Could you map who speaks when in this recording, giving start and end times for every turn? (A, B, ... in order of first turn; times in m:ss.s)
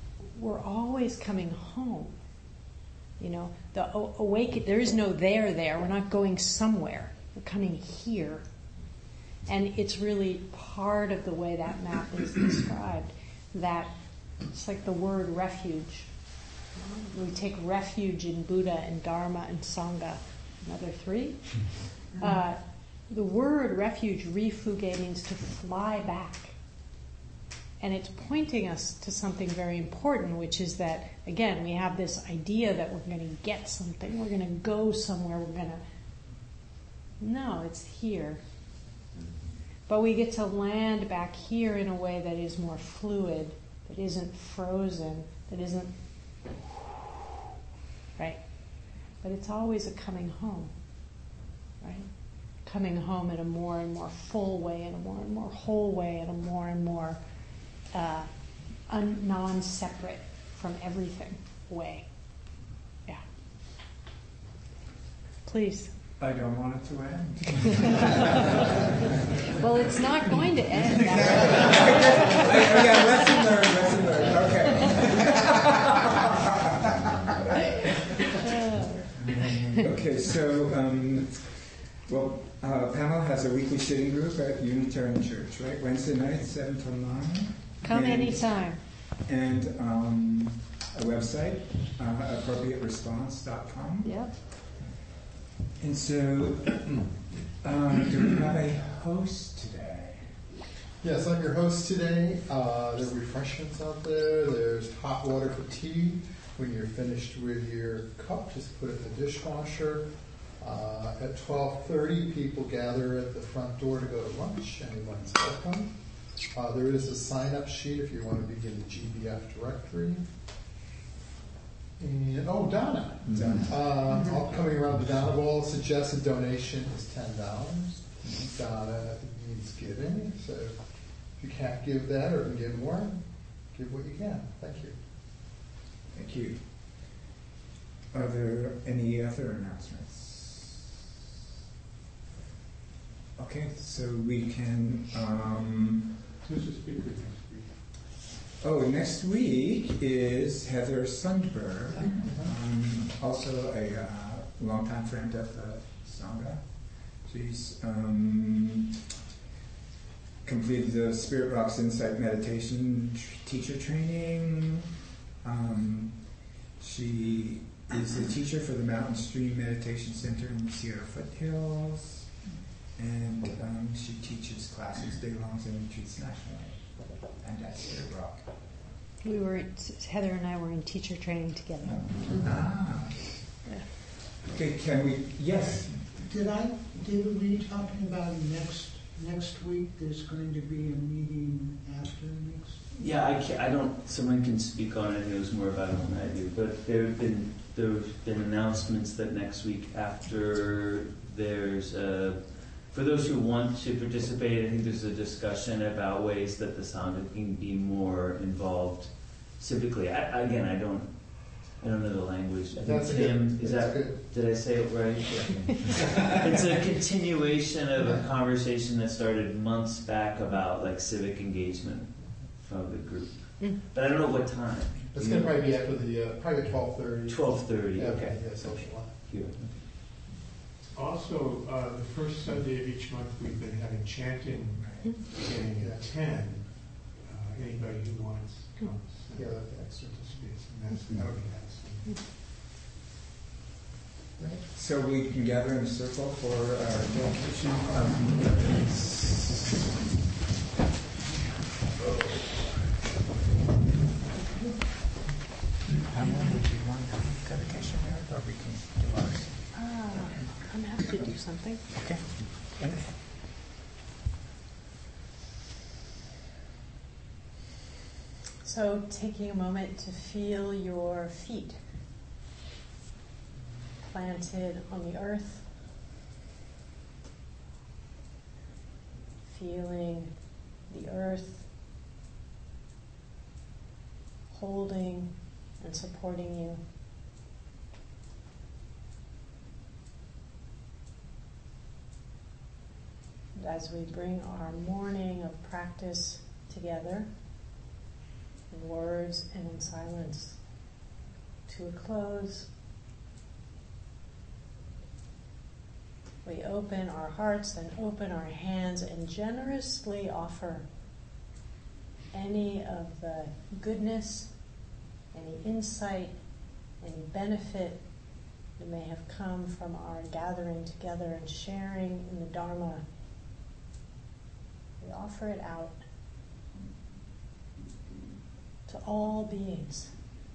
0:00.2-0:02.2 A
0:03.2-0:08.4 A
0:09.4-0:13.9 A
0:14.5-0:16.1 A
0:16.8-0:26.5 A
0:27.8-0:35.8 A
0:37.2-0:38.4 A
0:39.9-0:45.9 A
0:49.2-0:50.7 A
0:51.8-0:52.1 A
0:52.6-0:57.2 A
0:57.9-0:58.3 A
0:58.9-1:02.0 A
1:05.4-1:05.9 A
1:06.2-1:08.8 B
1:09.5-1:13.2 A
1:11.0-1:18.1 B
1:18.4-1:19.8 A
1:19.2-1:28.6 B
1:27.8-1:28.8 A
1:29.2-1:34.3 B
1:34.0-1:34.3 A
1:35.8-1:40.3 B
1:41.0-2:00.3 C
2:02.0-2:15.0 C
2:03.3-2:03.8 B
2:16.1-2:17.2 B
2:18.1-2:20.9 B
2:23.4-2:26.2 B
2:26.4-2:27.8 D
2:28.6-2:38.9 B
2:40.4-2:44.8 B
2:45.4-2:52.4 B
2:52.9-2:58.5 B
2:59.2-3:02.3 A
3:01.8-3:03.6 B
3:04.4-3:06.0 B
3:06.0-3:12.8 E
3:12.9-3:45.8 F
3:32.7-3:34.3 C
3:45.1-3:49.4 C
3:47.2-3:49.6 F
3:50.9-4:02.2 D
3:54.8-3:55.1 B
3:55.7-3:56.0 C
3:59.3-4:00.3 C
4:01.1-4:01.4 C
4:04.4-4:09.9 B
4:16.0-4:19.6 B
4:19.7-4:21.8 A
4:21.9-4:23.2 B
4:28.6-4:31.8 A
4:34.0-4:35.7 A
4:39.4-4:40.3 A
4:40.9-4:41.6 A
4:44.5-4:46.8 A
4:53.6-4:57.3 A
4:58.7-5:00.6 A
5:01.7-5:02.7 A
5:06.4-5:10.9 A
5:12.3-5:14.5 A
5:15.3-5:16.3 A
5:17.0-5:18.0 A
5:18.8-5:23.0 A
5:25.0-5:26.0 A
5:28.8-5:30.1 A